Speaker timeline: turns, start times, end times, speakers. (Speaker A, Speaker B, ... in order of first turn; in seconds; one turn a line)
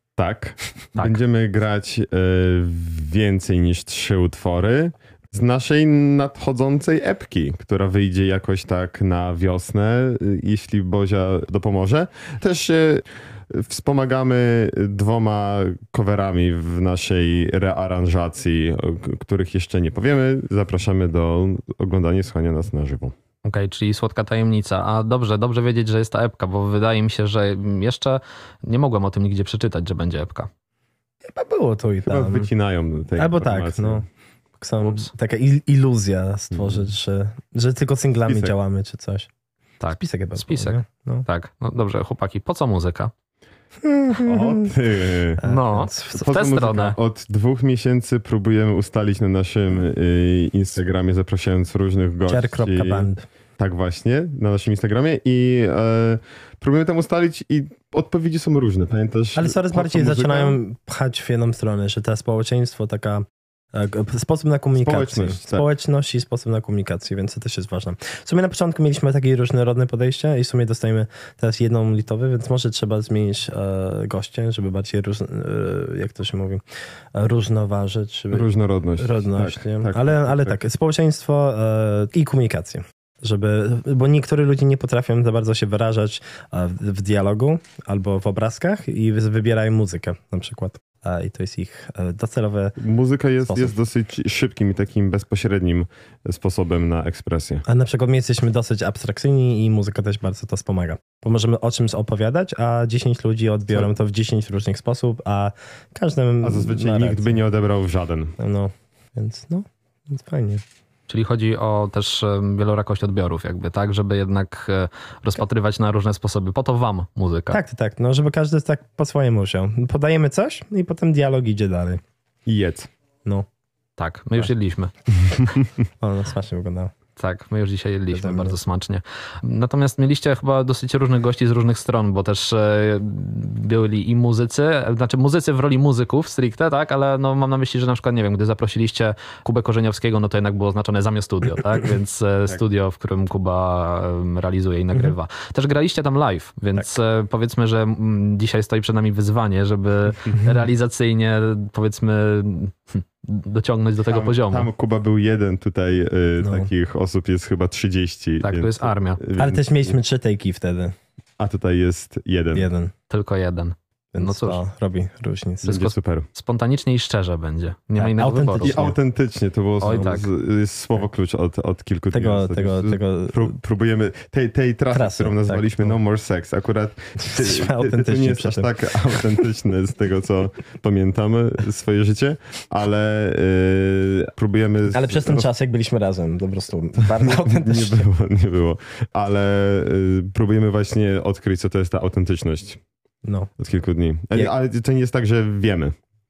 Speaker A: 0.2-23.1
Speaker B: 23.4-30.5
Speaker C: 31.2-32.5
Speaker A: 32.0-34.0
Speaker C: 33.1-34.0
Speaker C: 34.6-39.3
Speaker B: 34.8-35.1
Speaker A: 36.5-36.9
Speaker A: 38.2-38.5
Speaker B: 39.8-43.1
Speaker C: 39.9-41.2
Speaker C: 43.8-44.7
Speaker A: 44.2-45.4
Speaker C: 45.4-46.2
Speaker B: 45.4-47.0
Speaker A: 46.1-60.6
Speaker C: 52.3-53.2
Speaker C: 59.4-76.6
Speaker A: 64.8-65.7
Speaker C: 77.1-92.8
Speaker A: 78.3-80.5
Speaker A: 92.8-97.6
Speaker C: 93.5-93.8
Speaker C: 97.7-107.4
Speaker A: 106.4-108.3
Speaker C: 108.4-110.6
Speaker B: 111.1-117.6
Speaker C: 117.5-122.0
Speaker A: 122.5-122.9
Speaker B: 124.0-124.9
Speaker C: 126.0-126.9
Speaker B: 127.2-154.7
Speaker C: 128.1-128.6
Speaker A: 154.1-159.9
Speaker C: 156.4-156.7
Speaker B: 158.4-159.2
Speaker C: 159.4-160.9
Speaker A: 161.4-162.7
Speaker C: 162.5-162.9
Speaker B: 163.1-164.6
Speaker C: 164.1-165.8
Speaker A: 165.6-166.3
Speaker B: 165.7-168.9
Speaker C: 168.0-169.0
Speaker A: 168.6-185.5
Speaker B: 169.8-170.3
Speaker C: 172.1-173.5
Speaker C: 174.9-175.9
Speaker C: 177.2-178.7
Speaker C: 184.9-188.1
Speaker A: 187.0-192.8
Speaker C: 193.2-193.5
Speaker A: 193.6-195.9